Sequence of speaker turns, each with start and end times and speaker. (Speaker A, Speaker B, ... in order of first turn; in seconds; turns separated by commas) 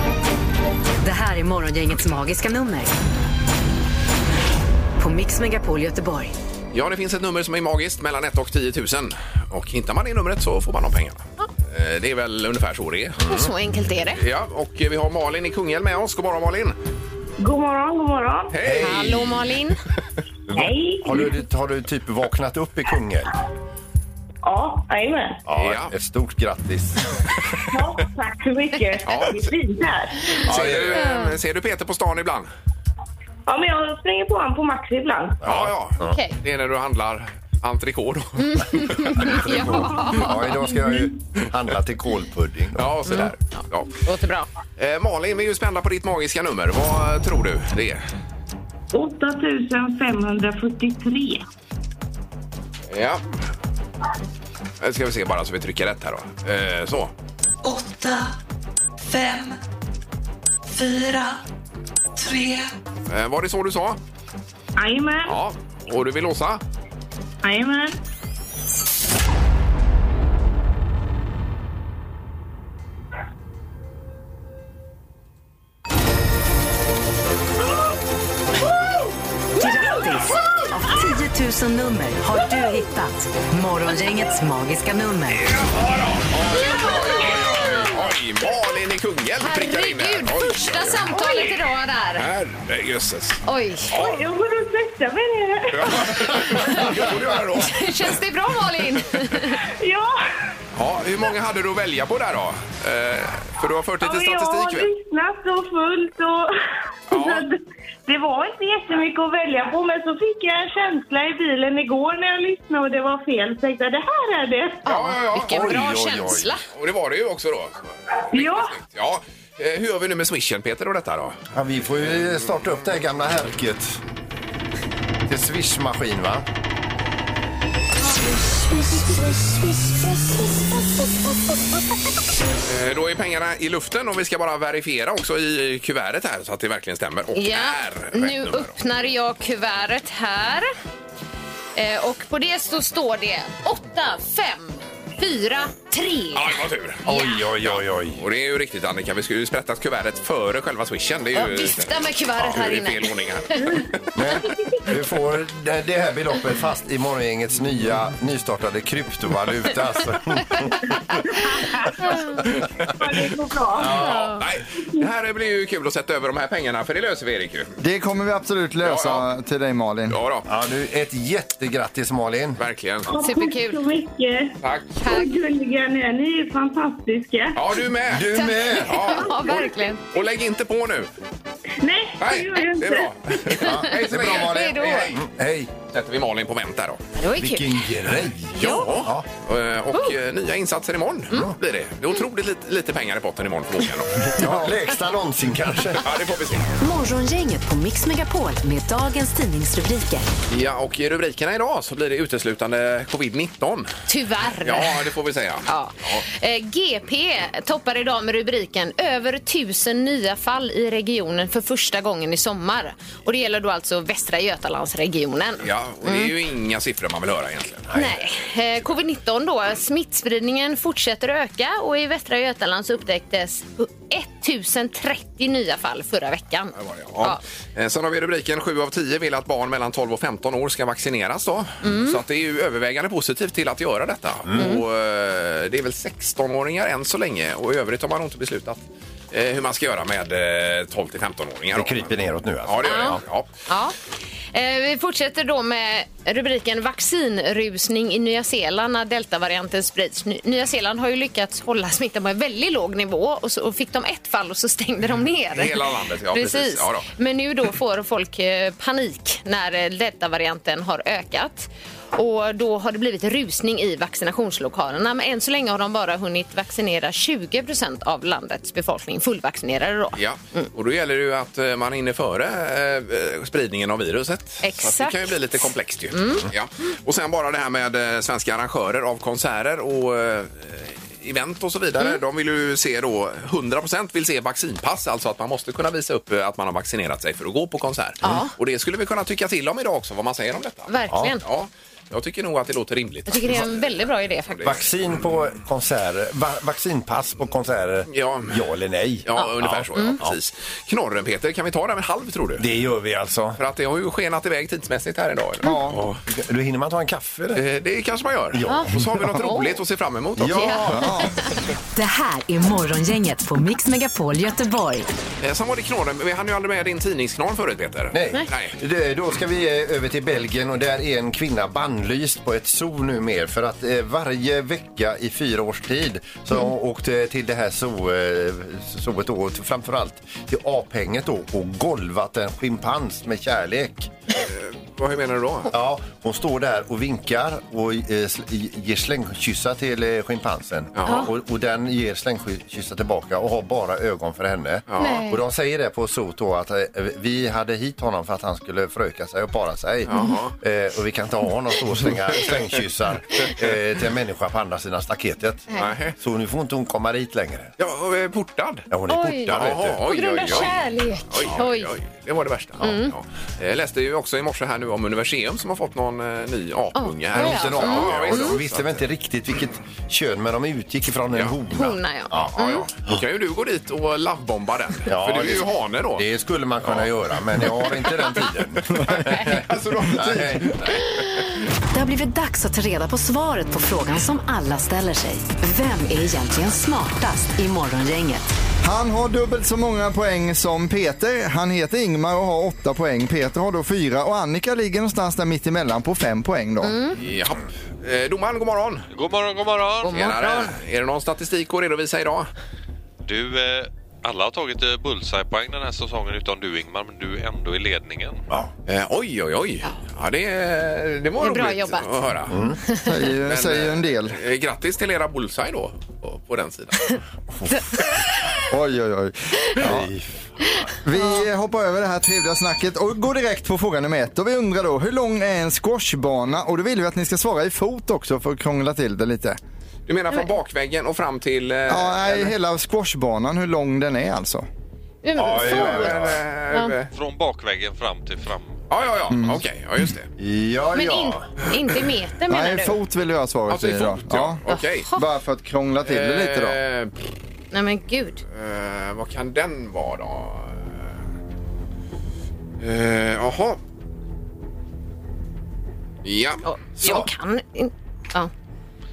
Speaker A: 1.0-2.9, Speaker A: 5.0-6.3, Speaker B: 6.7-13.2, Speaker C: 13.2-13.5, Speaker D: 13.2-14.2, Speaker B: 14.2-16.8, Speaker E: 17.4-18.6, Speaker B: 18.5-19.2, Speaker C: 18.6-19.5, Speaker D: 18.8-19.8, Speaker C: 20.5-23.3, Speaker E: 20.5-21.3, Speaker E: 24.4-25.4, Speaker C: 25.5-27.2, Speaker B: 25.6-25.9, Speaker E: 27.7-30.4, Speaker B: 29.0-29.5, Speaker B: 30.5-32.5, Speaker C: 30.5-31.0, Speaker D: 30.9-31.3, Speaker E: 33.5-35.4, Speaker C: 35.4-36.2, Speaker B: 35.4-39.4, Speaker D: 36.1-36.4, Speaker D: 38.4-40.7, Speaker C: 39.1-43.0, Speaker B: 42.8-43.9, Speaker D: 44.0-44.5, Speaker B: 44.8-48.0, Speaker E: 48.9-51.5, Speaker B: 52.9-53.2, Speaker B: 54.8-57.1, Speaker F: 57.6-58.3, Speaker F: 59.0-59.6, Speaker F: 60.7-61.4, Speaker F: 62.2-62.7, Speaker B: 63.1-64.0, Speaker E: 64.8-65.4, Speaker B: 65.3-66.6, Speaker E: 67.4-68.0, Speaker A: 79.6-85.5, Speaker B: 85.6-91.1, Speaker D: 86.5-87.6, Speaker D: 89.4-92.3, Speaker E: 91.2-91.5, Speaker B: 92.2-94.1, Speaker D: 93.5-94.0, Speaker E: 93.9-96.4, Speaker B: 95.7-98.2, Speaker D: 96.3-97.0, Speaker D: 97.6-99.6, Speaker E: 99.6-100.2, Speaker B: 100.8-104.9, Speaker E: 104.0-106.5, Speaker E: 107.1-114.8, Speaker B: 107.1-107.5, Speaker D: 114.8-116.6, Speaker B: 114.9-115.7, Speaker C: 115.3-116.5, Speaker B: 116.7-121.4, Speaker E: 118.3-118.8, Speaker C: 121.5-124.0, Speaker C: 125.3-126.5, Speaker B: 132.7-138.7, Speaker D: 137.3-140.7, Speaker D: 141.8-146.4, Speaker B: 146.3-147.0, Speaker D: 147.1-147.4, Speaker C: 147.1-148.2, Speaker B: 147.6-154.0, Speaker D: 151.3-153.2, Speaker C: 154.2-161.0, Speaker E: 161.5-161.9, Speaker E: 162.9-165.1, Speaker C: 163.8-164.4, Speaker B: 164.4-167.7, Speaker G: 167.8-170.2, Speaker B: 168.8-169.3, Speaker B: 170.1-170.5, Speaker C: 170.5-172.6, Speaker B: 172.6-173.1, Speaker E: 173.1-177.8, Speaker D: 173.2-173.8, Speaker B: 174.6-175.0, Speaker D: 175.0-175.3, Speaker B: 177.5-181.1, Speaker C: 178.1-179.0, Speaker D: 178.3-180.0, Speaker E: 181.8-183.1, Speaker B: 182.2-185.2, Speaker C: 183.6-185.7, Speaker D: 183.6-185.1, Speaker B: 185.9-187.0, Speaker D: 187.2-187.9, Speaker C: 187.4-189.3, Speaker D: 188.6-188.9, Speaker B: 188.6-194.4, Speaker C: 194.3-196.1, Speaker B: 196.0-196.7, Speaker A: 196.8-200.3, Speaker B: 200.5-203.9, Speaker D: 204.1-205.1, Speaker B: 204.6-206.2, Speaker D: 205.7-216.3, Speaker B: 215.6-217.9, Speaker C: 217.9-218.1, Speaker D: 217.9-227.4, Speaker B: 226.8-243.5, Speaker D: 231.8-232.2, Speaker C: 234.4-234.8, Speaker C: 241.7-243.2, Speaker D: 242.8-243.9, Speaker D: 244.5-270.7, Speaker B: 255.5-257.1, Speaker B: 270.1-294.9, Speaker D: 274.6-276.5, Speaker D: 288.2-288.5, Speaker D: 290.9-291.4, Speaker C: 291.1-291.4, Speaker D: 293.3-294.8, Speaker C: 294.6-300.4, Speaker B: 298.1-298.6, Speaker B: 299.2-302.7, Speaker D: 299.4-300.2, Speaker C: 302.6-303.6, Speaker B: 303.6-306.2, Speaker G: 305.6-306.1, Speaker C: 306.3-307.6, Speaker B: 307.5-311.0, Speaker C: 308.5-309.4, Speaker D: 308.7-309.8, Speaker C: 310.4-311.1, Speaker D: 310.5-311.5, Speaker G: 310.9-311.3, Speaker A: 311.9-315.1, Speaker B: 315.4-318.8, Speaker C: 318.1-334.1, Speaker B: 334.4-335.7, Speaker C: 335.7-357.7, Speaker B: 341.0-341.3, Speaker B: 344.9-345.2, Speaker D: 345.0-345.4, Speaker B: 350.1-350.5, Speaker B: 355.8-356.1, Speaker B: 357.8-358.9, Speaker C: 358.9-360.7, Speaker D: 359.1-361.9, Speaker B: 359.5-369.1, Speaker D: 362.8-363.1, Speaker D: 367.0-368.6, Speaker C: 367.3-372.6, Speaker B: 371.3-371.6, Speaker D: 371.7-372.9, Speaker B: 372.3-376.3, Speaker C: 375.1-381.0, Speaker B: 376.8-378.2, Speaker B: 378.9-381.6, Speaker A: 381.9-388.5, Speaker G: 388.8-397.0, Speaker D: 396.8-397.2, Speaker B: 397.2-399.1, Speaker H: 399.1-400.3, Speaker D: 400.0-400.7, Speaker B: 400.1-402.5, Speaker H: 403.2-408.4, Speaker B: 408.9-412.6, Speaker D: 411.4-412.1, Speaker C: 412.5-412.8, Speaker D: 412.9-413.2, Speaker G: 413.1-414.4, Speaker B: 413.4-417.2, Speaker C: 417.6-418.0, Speaker G: 418.7-420.1, Speaker C: 419.8-420.9, Speaker G: 421.0-429.6, Speaker D: 421.2-421.4, Speaker B: 430.1-432.6, Speaker G: 431.9-434.7, Speaker D: 435.2-436.9, Speaker C: 435.4-436.4, Speaker B: 435.6-437.1, Speaker H: 437.1-438.8, Speaker B: 438.9-440.3, Speaker G: 439.3-439.6, Speaker C: 440.4-441.5, Speaker D: 440.9-443.0, Speaker G: 442.5-444.6, Speaker B: 443.7-445.1, Speaker D: 444.7-445.2, Speaker G: 445.1-446.8, Speaker B: 446.0-447.3, Speaker D: 447.7-448.4, Speaker B: 448.5-451.0, Speaker B: 452.8-453.8, Speaker B: 456.2-456.6, Speaker D: 456.6-458.5, Speaker C: 457.0-457.3